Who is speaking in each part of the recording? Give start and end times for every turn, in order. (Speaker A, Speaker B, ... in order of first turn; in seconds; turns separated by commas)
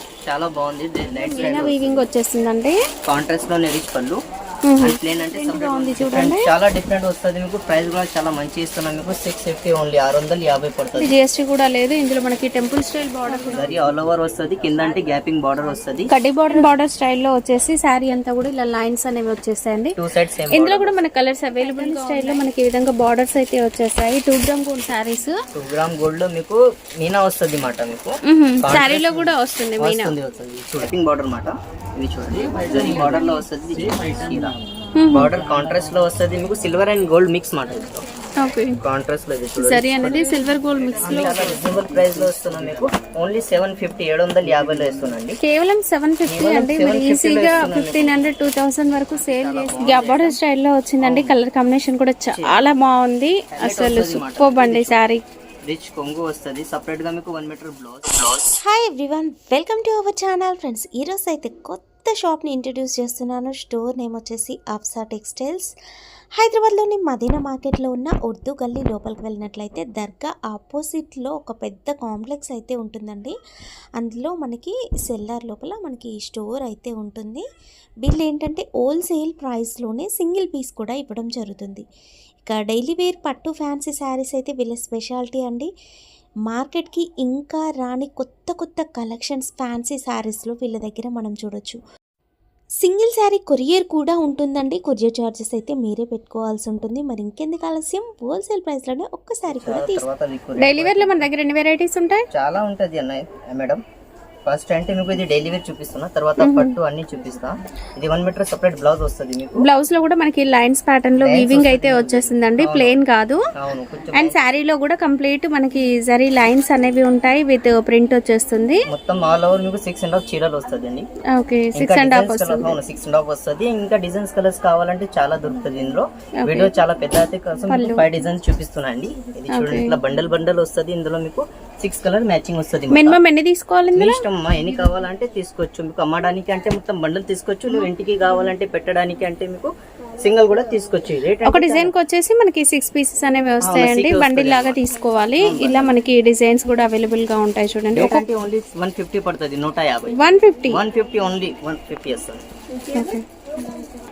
Speaker A: 0.3-2.1, Speaker B: 1.2-2.8, Speaker A: 3.1-4.2, Speaker B: 4.7-6.5, Speaker A: 4.8-11.1, Speaker B: 11.0-13.7, Speaker A: 13.5-16.1, Speaker B: 16.1-20.0, Speaker A: 20.0-20.9, Speaker B: 20.5-25.3, Speaker C: 21.6-22.3, Speaker A: 25.5-34.6, Speaker B: 28.3-30.1, Speaker B: 35.0-35.3, Speaker A: 35.1-38.1, Speaker B: 38.4-38.8, Speaker A: 38.8-40.2, Speaker B: 39.6-41.5, Speaker A: 41.0-45.4, Speaker B: 45.4-55.2, Speaker A: 46.3-48.2, Speaker A: 49.1-50.4, Speaker A: 51.0-51.3, Speaker A: 52.4-52.7, Speaker A: 53.5-55.0, Speaker A: 55.7-58.6, Speaker C: 58.6-65.7, Speaker C: 66.4-73.3, Speaker C: 74.0-77.4, Speaker C: 78.0-81.8, Speaker C: 82.4-85.7, Speaker C: 86.5-91.8, Speaker C: 92.8-100.0, Speaker A: 99.6-101.3, Speaker B: 100.6-102.3, Speaker A: 102.3-103.8, Speaker A: 104.5-109.7, Speaker B: 106.4-106.7, Speaker B: 109.6-113.4, Speaker A: 111.2-113.0, Speaker A: 113.6-114.4, Speaker B: 114.1-118.9, Speaker A: 118.9-121.1, Speaker B: 121.3-122.7, Speaker A: 121.8-133.2, Speaker B: 126.5-126.7, Speaker B: 127.7-128.0, Speaker B: 129.5-130.0, Speaker B: 132.9-134.2, Speaker A: 133.9-141.9, Speaker B: 141.4-148.2, Speaker A: 143.6-144.8, Speaker A: 145.4-145.9, Speaker A: 147.9-150.2, Speaker B: 150.1-150.8, Speaker A: 150.7-152.4, Speaker B: 152.9-153.2